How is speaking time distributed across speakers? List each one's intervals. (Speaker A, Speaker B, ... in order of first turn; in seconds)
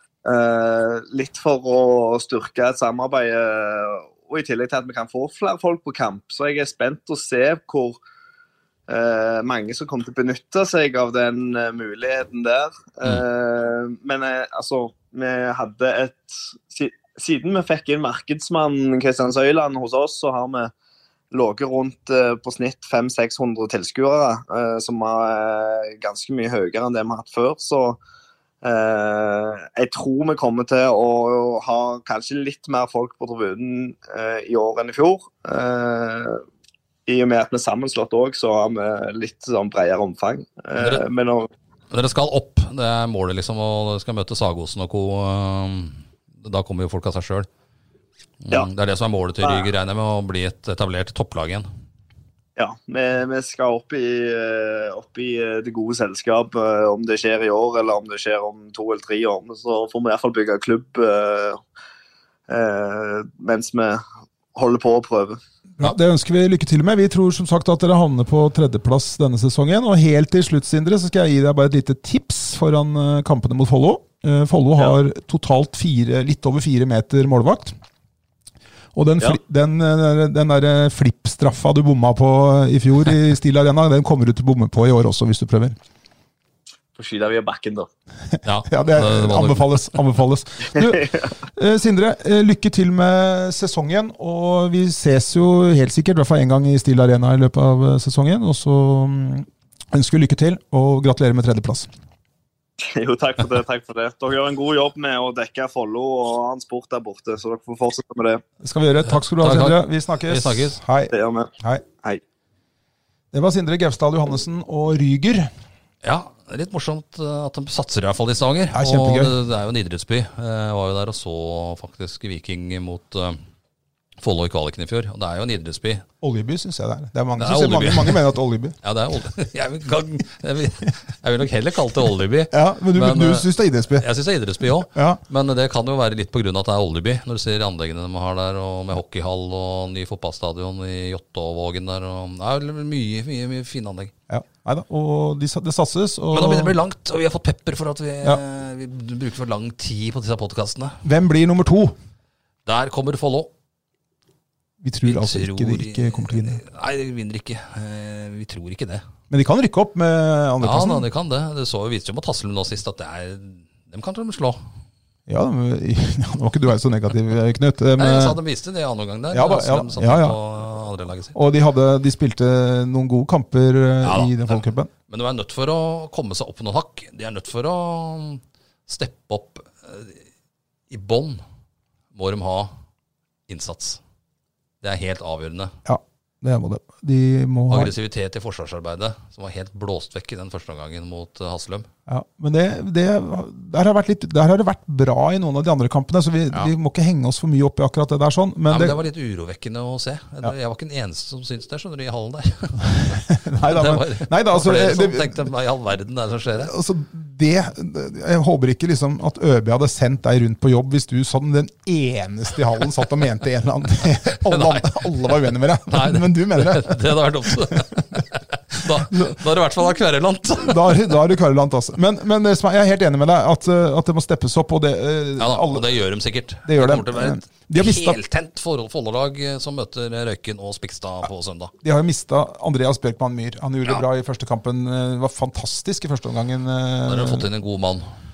Speaker A: 0.2-8.0, 8.9-20.7, 21.3-28.0, 28.6-36.4, 37.1-41.5, 49.4-49.7, 52.6-61.6, 62.5-64.0, 64.5-65.4, 87.0-87.9, 90.8-91.3, 102.8-108.4, 111.1-111.5
Speaker B: 40.8-41.0, 41.9-47.5, 48.4-51.7, 88.4-90.0, 109.4-110.8, 116.0-123.4, 124.2-126.0, 127.4-128.3, 128.8-144.1, 146.3-151.0, 152.7-153.5, 155.1-159.0, 160.6-164.6, 168.0-171.3, 174.0-180.2, 180.9-181.4, 182.1-182.7, 183.5-184.0, 184.8-185.8, 187.7-191.9, 198.7-206.7, 214.3-221.1, 225.4-231.7, 237.1-238.1
Speaker C: 65.8-77.8, 79.0-85.8, 88.3-101.9, 108.6-111.8, 113.3-115.5, 118.7-119.4, 126.2-128.8, 132.5-134.1, 134.9-135.2, 144.3-146.8, 151.0-151.9, 154.8-156.6, 159.3-161.1, 165.3-168.4, 169.3-170.4, 171.3-174.9, 185.8-187.9, 192.1-199.0, 202.9-205.5, 206.6-218.2, 218.8-219.4, 220.6-225.9, 226.7-228.2, 231.8-237.5